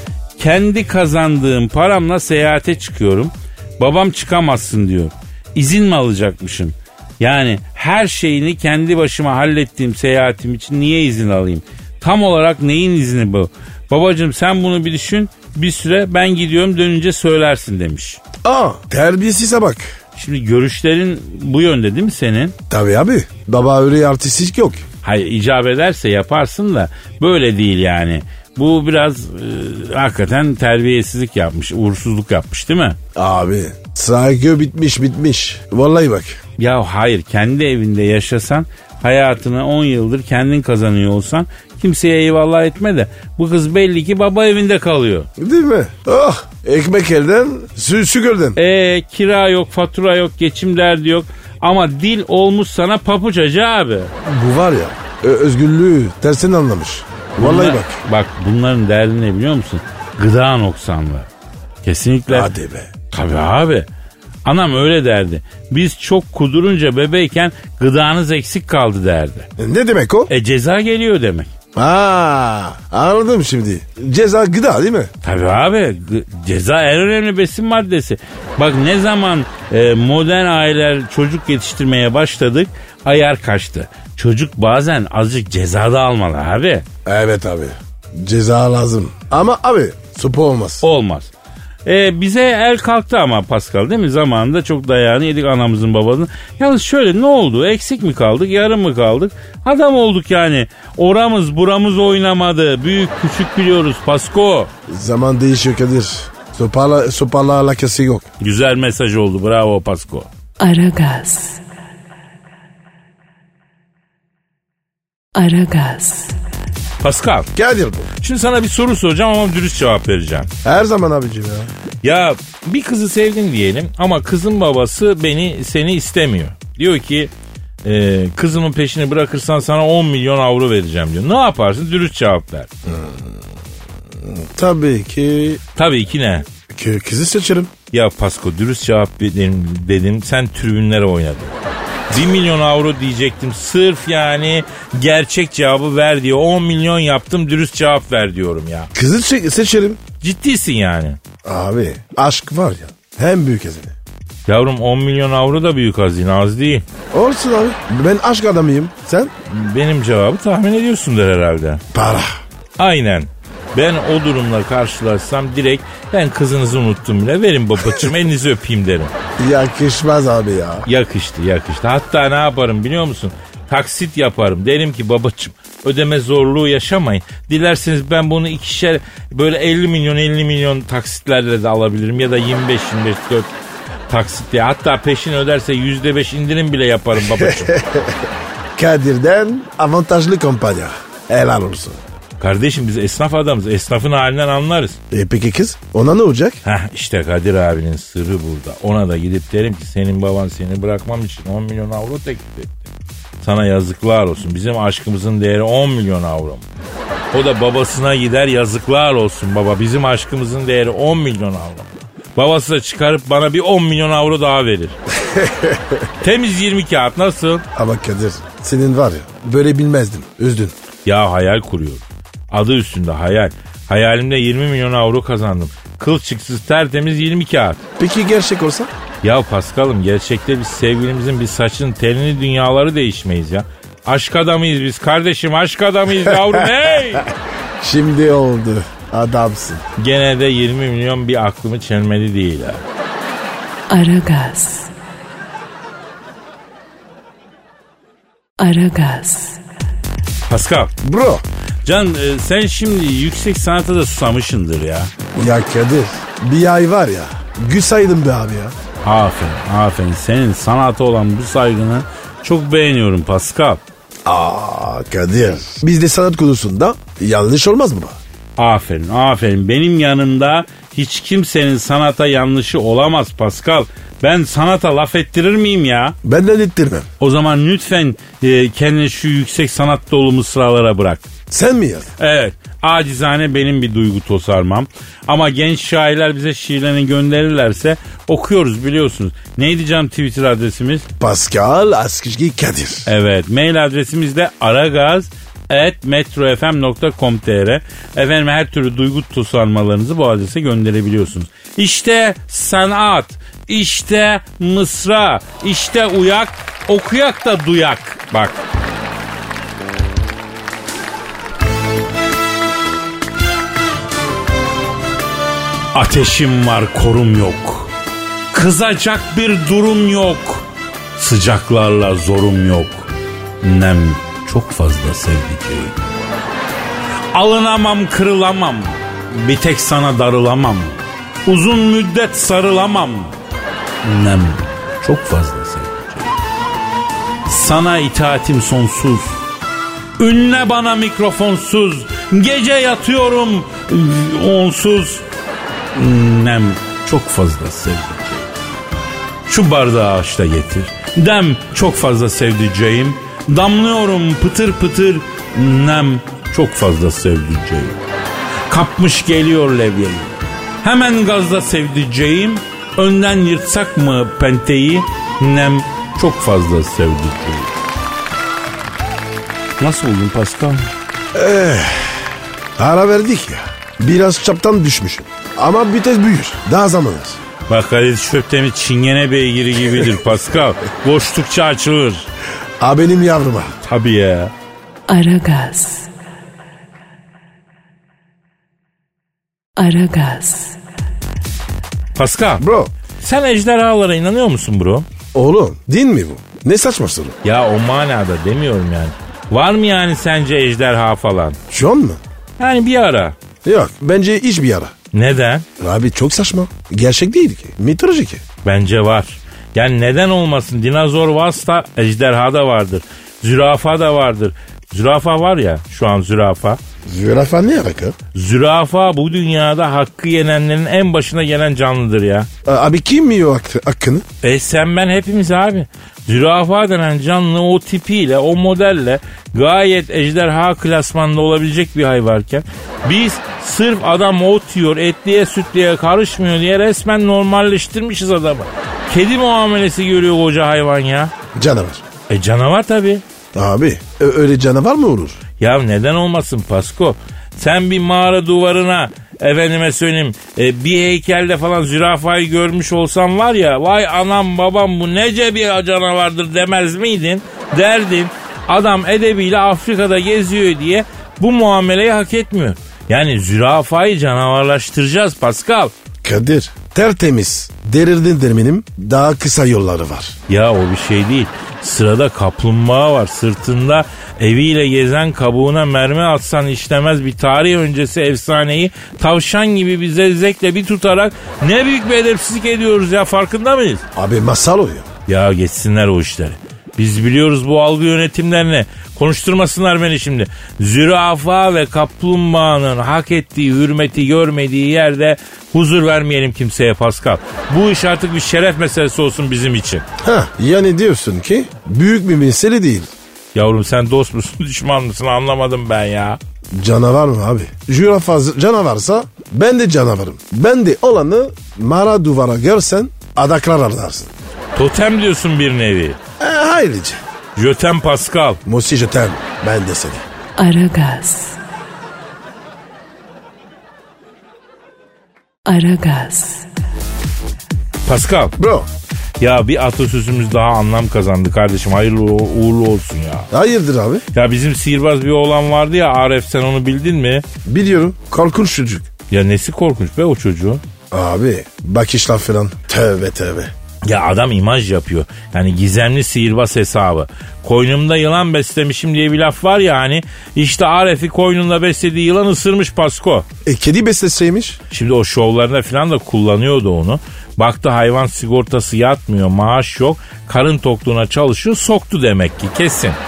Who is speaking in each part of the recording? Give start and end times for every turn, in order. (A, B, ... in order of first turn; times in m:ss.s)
0:00.4-0:18.2 A
0:18.4-0:19.9 B
0:20.2-0:22.6 A
0:22.7-0:24.8 B
0:25.0-0:33.0 A
0:33.2-0:36.4 B
0:36.6-0:45.3 A
0:45.4-0:48.6 B
0:48.6-0:54.1 A
0:54.2-0:58.0 B
0:57.4-1:01.3 A
1:01.8-1:02.5 A
1:02.3-1:02.9 B
1:03.1-1:03.9 A
1:04.4-1:09.5 A
1:09.6-1:10.3 B
1:10.3-1:11.5 A
1:11.8-1:15.1 B
1:15.2-1:26.9 A
1:27.0-1:30.8 B
1:30.8-1:31.3 A
1:31.8-1:44.7 A
1:44.9-1:48.3 B
1:48.4-1:50.3 A
1:50.6-1:51.6 C
1:55.4-1:56.4 C
1:57.0-1:57.5 A
1:57.6-1:58.1 B
1:58.2-2:00.5 A
2:00.6-2:01.7 B
2:02.0-2:07.3 A
2:07.8-2:12.7 A
2:12.9-2:13.4 B
2:14.2-2:15.6 B
2:15.8-2:16.5 A
2:16.7-2:17.7 B
2:17.9-2:21.5 A
2:22.1-2:28.9 A
2:29.0-2:30.0 B
2:30.2-2:31.2 A
2:31.4-2:34.0 B
2:34.5-2:36.8 A
2:37.1-2:39.3 B
2:39.5-2:41.8 A
2:41.9-2:42.4 B
2:42.8-2:49.1 A
2:49.4-2:50.9 B
2:50.9-3:03.5 A
3:04.1-3:07.8 A
3:07.2-3:12.0 B
3:12.4-3:15.0 A
3:15.1-3:16.6 B
3:16.6-3:22.8 A
3:23.4-3:26.6 A
3:27.3-3:35.0 A
3:35.3-3:36.0 B
3:36.2-3:37.6 A
3:37.8-3:40.8 B
3:41.0-3:47.8 A
3:48.0-3:48.9 B
3:49.2-3:57.3 A
3:57.8-3:59.8 B
4:00.0-4:02.8 A
4:03.9-4:04.9 C
4:08.6-4:09.6 C
4:10.5-4:10.9 A
4:11.0-4:11.4 B
4:11.8-4:15.1 A
4:15.4-4:18.8 B
4:19.0-4:23.8 A
4:24.3-4:28.2 B
4:28.6-4:36.2 A
4:36.2-4:37.1 B
4:37.2-4:41.3 A
4:41.5-4:42.1 B
4:42.2-4:51.1 A
4:51.2-4:53.1 B
4:53.1-5:08.6 A
5:15.9-5:17.9 A
5:18.5-5:26.0 A
5:27.3-5:33.4 A
5:34.0-5:36.3 A
5:37.5-5:39.4 A
5:40.2-5:45.2 A
5:45.9-5:48.5 A
5:49.5-5:58.0 A
5:58.7-6:07.7 A
6:09.8-6:10.9 A
6:11.3-6:12.2 B
6:12.8-6:17.4 B
6:17.7-6:22.3 A
6:22.8-6:23.8 B
6:23.8-6:24.5 A
6:25.1-6:26.1 C
6:29.8-6:30.8 C
6:32.2-6:32.6 A
6:32.6-6:32.9 B
6:33.2-6:35.1 A
6:35.3-6:37.4 B
6:37.4-6:41.6 A
6:41.7-6:42.2 B
6:42.6-6:43.4 A
6:43.6-6:44.9 B
6:45.1-6:45.7 A
6:45.8-6:48.4 B
6:48.6-6:56.8 A
6:57.1-6:58.2 B
6:58.3-7:02.5 A
7:02.6-7:04.2 B
7:04.4-7:21.3 A
7:21.6-7:22.0 B
7:22.3-7:23.2 A
7:23.5-7:25.4 B
7:25.6-7:45.9 A
7:46.2-7:50.4 B
7:50.5-8:04.0 A
8:04.2-8:05.1 B
8:05.3-8:20.1 A
8:20.2-8:23.1 B
8:23.5-8:26.4 A
8:26.7-8:34.3 B
8:34.8-8:36.2 A
8:36.4-8:37.2 B
8:37.6-8:38.6 A
8:38.6-8:40.2 B
8:40.6-8:41.6 C
8:45.7-8:46.7 C
8:48.1-8:48.6 A
8:48.6-8:48.9 B
8:49.4-8:53.5 A
8:53.5-8:54.2 B
8:54.3-8:57.4 A
8:57.7-8:59.1 B
8:59.3-9:00.8 A
9:01.1-9:03.7 B
9:04.0-9:13.5 A
9:13.6-9:14.8 B
9:14.9-9:23.2 A